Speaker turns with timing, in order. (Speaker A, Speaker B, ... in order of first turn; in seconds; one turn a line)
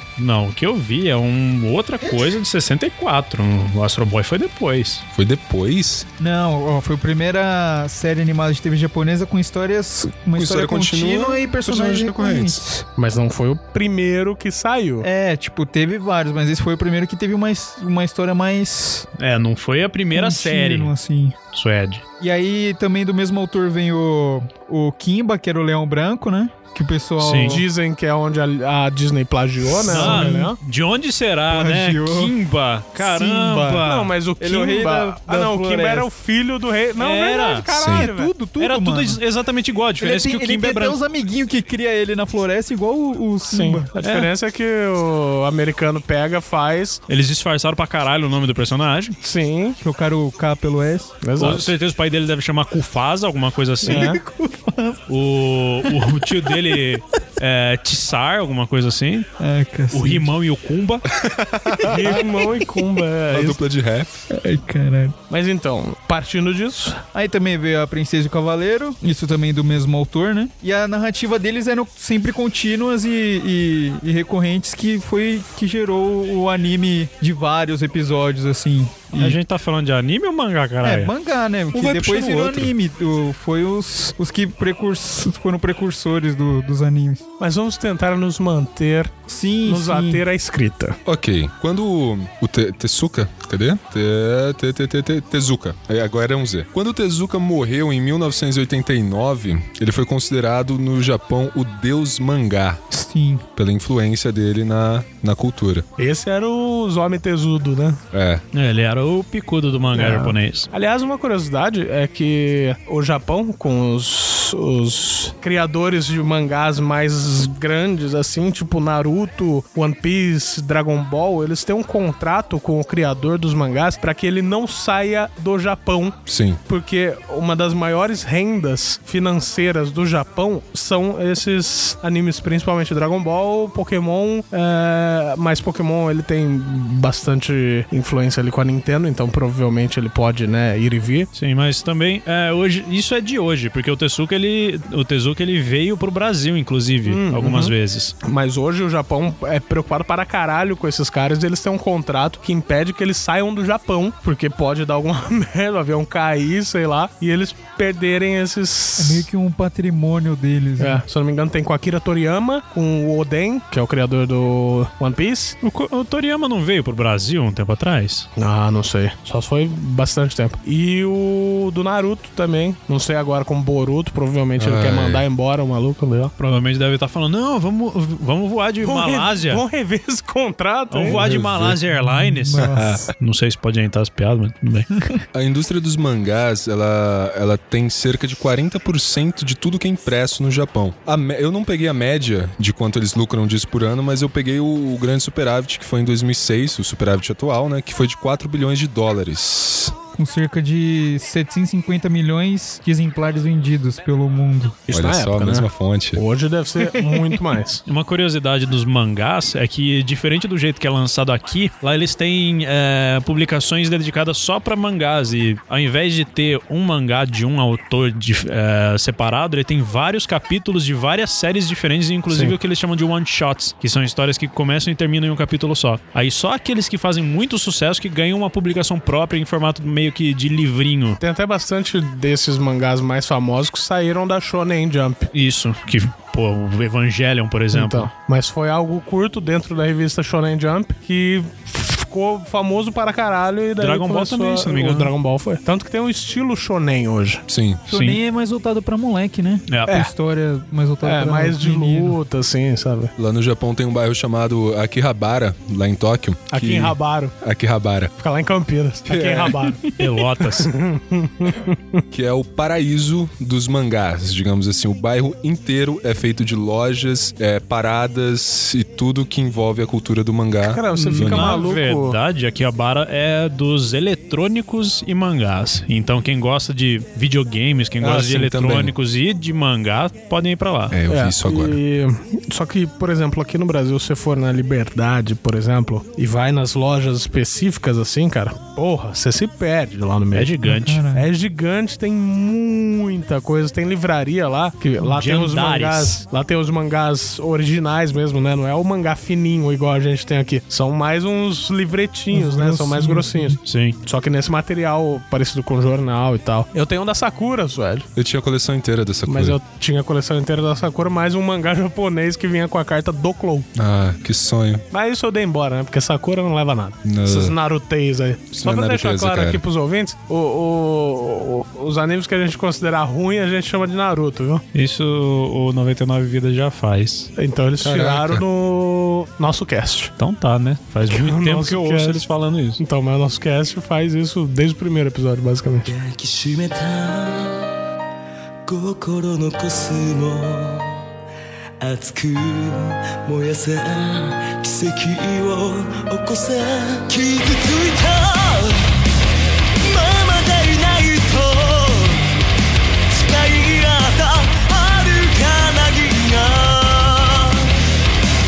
Speaker A: 0.2-5.0
Speaker B: 5.1-6.1
Speaker C: 6.2-12.8
Speaker B: 10.3-12.6
Speaker D: 13.0-15.1
Speaker C: 15.0-19.1
Speaker A: 19.2-20.9
Speaker C: 20.1-21.4
Speaker A: 21.5-22.0
Speaker C: 22.2-27.6
Speaker A: 27.2-27.6
Speaker D: 27.5-30.6
Speaker C: 29.8-30.6
Speaker A: 29.9-34.1
Speaker C: 31.5-32.4
Speaker C: 32.9-33.9
Speaker D: 33.8-38.3
Speaker C: 34.4-36.1
Speaker A: 37.0-37.7
Speaker B: 37.7-38.0
Speaker C: 37.9-39.2
Speaker A: 38.6-41.0
Speaker C: 40.0-43.9
Speaker D: 43.5-47.0
Speaker A: 47.1-49.1
Speaker D: 49.2-49.8
Speaker C: 49.8-51.1
Speaker D: 51.2-51.7
Speaker A: 51.4-54.1
Speaker D: 53.8-54.2
Speaker C: 53.8-55.1
Speaker A: 55.1-59.3
Speaker C: 55.8-56.8
Speaker C: 59.4-60.3
Speaker A: 59.9-61.1
Speaker B: 61.1-62.2
Speaker D: 61.9-63.6
Speaker B: 63.3-64.2
Speaker C: 64.3-65.2
Speaker D: 65.3-67.0
Speaker C: 67.1-79.4
Speaker A: 79.2-81.1
Speaker C: 80.8-87.2
Speaker B: 81.7-82.7
Speaker D: 87.4-91.0
Speaker C: 89.3-90.2
Speaker B: 91.0-102.8
Speaker C: 102.9-103.4
Speaker B: 103.5-105.8
Speaker D: 106.0-108.0
Speaker B: 108.1-108.4
Speaker A: 108.5-110.7
Speaker D: 110.0-141.3
Speaker B: 126.3-126.6
Speaker A: 141.3-148.1
Speaker D: 147.1-159.3
Speaker C: 159.0-161.0
Speaker D: 160.8-165.6
Speaker A: 165.6-168.3
Speaker D: 168.3-176.3
Speaker B: 174.6-175.2
Speaker A: 176.4-179.6
Speaker D: 178.8-181.2
Speaker A: 180.9-184.9
Speaker B: 181.1-181.8
Speaker C: 181.9-183.0
Speaker B: 182.6-183.0
Speaker B: 185.3-199.9
Speaker C: 200.1-204.8
Speaker D: 204.9-207.8
Speaker B: 204.9-206.2
Speaker A: 207.8-231.2
Speaker D: 222.3-222.6
Speaker D: 231.2-235.3
Speaker A: 235.3-238.1
Speaker D: 237.7-247.4
Speaker A: 243.8-245.1
Speaker B: 247.5-247.8
Speaker C: 247.9-252.2
Speaker A: 247.9-248.2
Speaker A: 249.7-249.9
Speaker D: 251.0-253.1
Speaker B: 253.2-258.1
Speaker D: 256.5-257.3
Speaker D: 258.2-259.8
Speaker B: 259.1-259.6
Speaker C: 259.9-260.2
Speaker A: 260.0-260.7
Speaker D: 260.6-262.0
Speaker B: 262.1-271.6
Speaker D: 270.6-272.2
Speaker A: 271.0-281.0
Speaker B: 278.0-278.9
Speaker B: 280.9-281.8
Speaker D: 281.1-290.6
Speaker A: 290.3-291.0
Speaker C: 290.6-291.3
Speaker D: 291.1-308.1
Speaker A: 295.0-296.2
Speaker C: 302.3-303.6
Speaker A: 303.6-304.0
Speaker B: 308.1-309.6
Speaker D: 309.2-313.7
Speaker B: 313.7-314.8
Speaker D: 314.9-324.6
Speaker B: 317.0-317.5
Speaker B: 318.5-319.6
Speaker A: 324.7-327.3
Speaker D: 327.4-330.1
Speaker B: 327.8-328.4
Speaker A: 330.2-332.8
Speaker D: 331.1-332.2
Speaker D: 332.8-335.9
Speaker E: 335.8-337.7
Speaker E: 338.6-341.1
Speaker E: 341.8-348.9
Speaker E: 349.8-352.2
Speaker E: 353.1-357.7